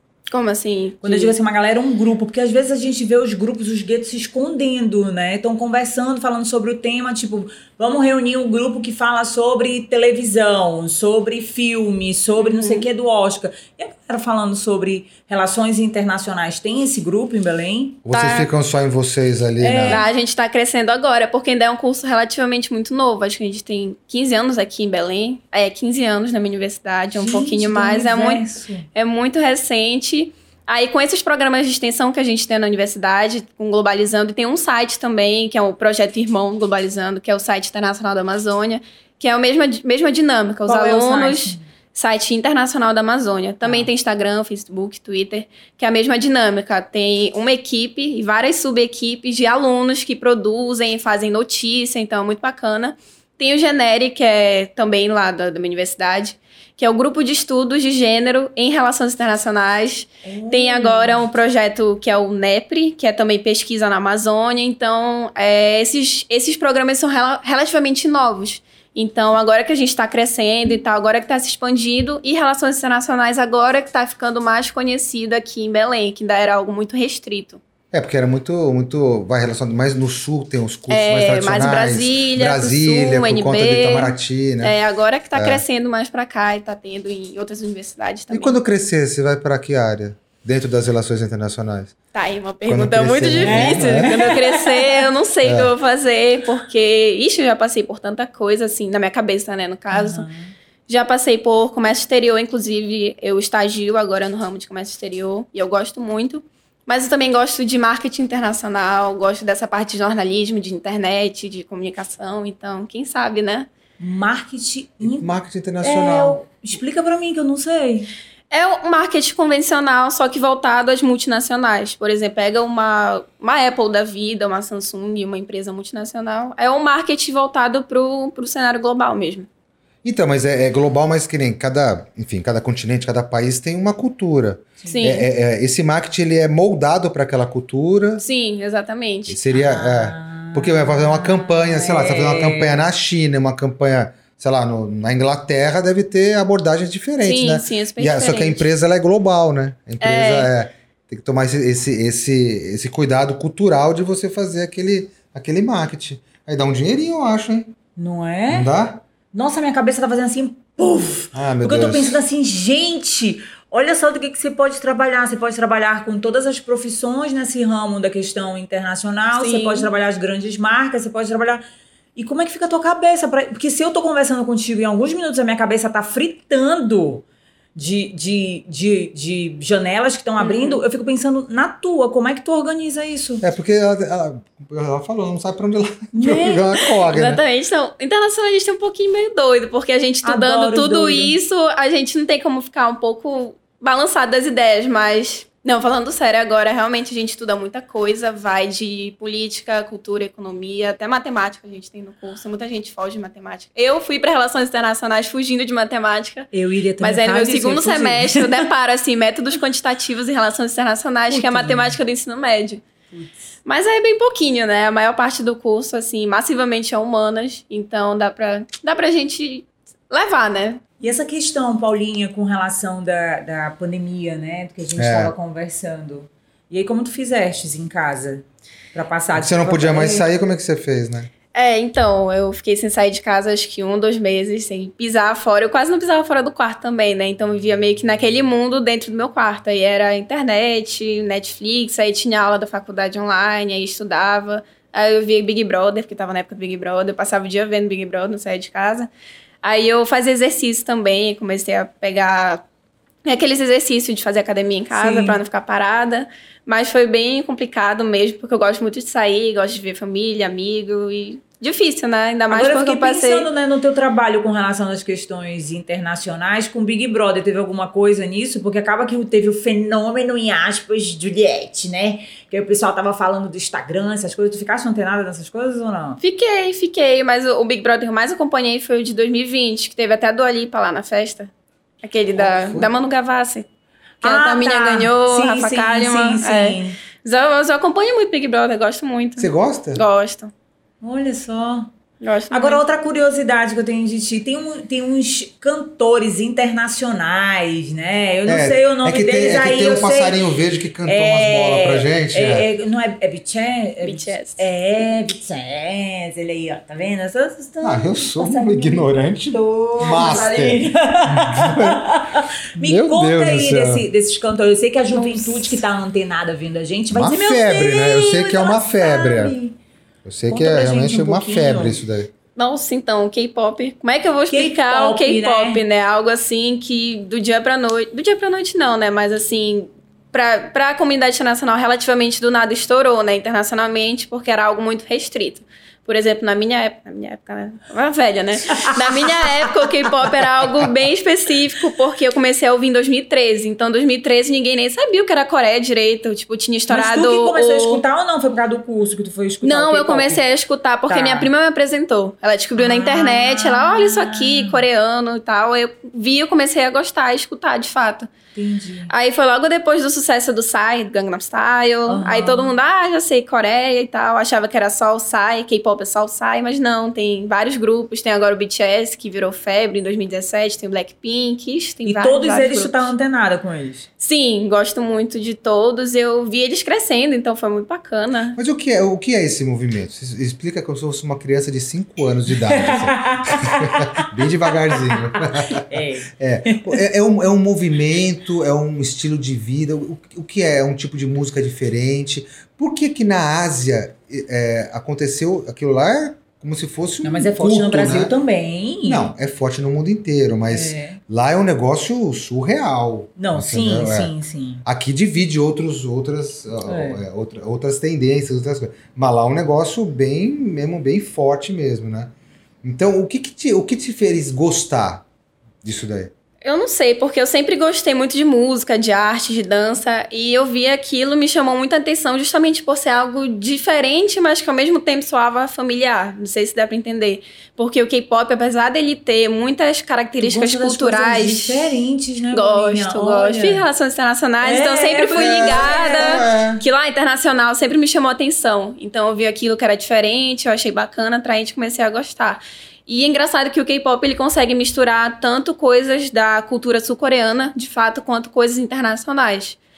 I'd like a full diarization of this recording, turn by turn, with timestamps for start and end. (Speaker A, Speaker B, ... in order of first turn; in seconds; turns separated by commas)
Speaker A: 0.3-1.3, Speaker B: 1.0-18.4, Speaker A: 12.4-12.9, Speaker C: 18.0-20.0, Speaker B: 19.6-20.0, Speaker A: 19.9-77.6, Speaker B: 27.2-28.9, Speaker B: 40.6-41.6, Speaker B: 43.6-43.9, Speaker B: 60.2-61.2, Speaker C: 77.9-84.8, Speaker A: 80.9-88.5, Speaker C: 85.3-85.6, Speaker C: 88.3-92.0, Speaker A: 92.1-100.3, Speaker C: 92.6-94.1, Speaker B: 93.4-95.0, Speaker C: 95.4-95.7, Speaker B: 99.9-100.5, Speaker A: 100.9-113.7, Speaker B: 114.0-115.3, Speaker C: 115.0-116.4, Speaker B: 115.8-118.1, Speaker A: 118.5-129.5, Speaker C: 130.0-138.2, Speaker B: 134.8-135.2, Speaker A: 134.9-135.2, Speaker A: 138.2-139.4, Speaker C: 139.3-157.7, Speaker B: 139.5-142.8, Speaker A: 147.2-148.7, Speaker A: 150.0-150.5, Speaker B: 158.0-158.7, Speaker C: 158.5-159.0, Speaker B: 159.3-171.6, Speaker C: 161.3-162.2, Speaker A: 169.3-169.9, Speaker B: 172.2-177.2, Speaker B: 177.8-183.4, Speaker A: 180.4-180.8, Speaker C: 183.4-187.4, Speaker B: 186.1-186.7, Speaker A: 187.1-212.8, Speaker B: 190.2-191.3, Speaker B: 206.5-208.7, Speaker B: 211.3-212.0, Speaker B: 213.1-213.4, Speaker A: 213.6-220.8, Speaker B: 221.0-230.2, Speaker C: 224.9-225.3, Speaker C: 229.3-231.3, Speaker A: 231.5-249.1, Speaker A: 249.6-252.6, Speaker A: 253.2-263.5, Speaker B: 254.9-255.4, Speaker B: 262.5-276.2, Speaker A: 276.2-281.5, Speaker A: 282.0-283.6, Speaker C: 282.4-282.9, Speaker B: 284.2-287.0, Speaker A: 284.2-290.5, Speaker C: 289.4-290.0, Speaker B: 291.0-291.9, Speaker A: 292.2-292.8, Speaker B: 292.5-300.4, Speaker C: 298.5-302.7, Speaker B: 301.1-319.8, Speaker A: 304.0-304.6, Speaker C: 307.8-312.0, Speaker C: 312.8-314.1, Speaker A: 315.1-315.8, Speaker C: 317.1-319.6, Speaker C: 320.2-322.3, Speaker B: 320.5-322.0, Speaker A: 322.6-348.0, Speaker B: 324.5-325.8, Speaker B: 346.9-350.4, Speaker A: 349.6-358.3, Speaker B: 351.1-351.5, Speaker B: 352.8-354.8, Speaker B: 358.5-359.1, Speaker A: 359.1-373.0, Speaker B: 362.1-362.7, Speaker B: 372.0-374.1, Speaker A: 374.2-378.6, Speaker C: 378.6-398.3, Speaker B: 382.6-387.0, Speaker B: 397.2-399.3, Speaker C: 399.1-404.3, Speaker B: 400.7-401.2, Speaker B: 403.4-404.8, Speaker C: 404.8-415.2, Speaker B: 406.9-407.2, Speaker C: 415.8-416.3, Speaker A: 416.6-431.9, Speaker B: 430.4-433.8, Speaker A: 432.5-449.8, Speaker B: 434.6-436.4, Speaker C: 435.4-436.8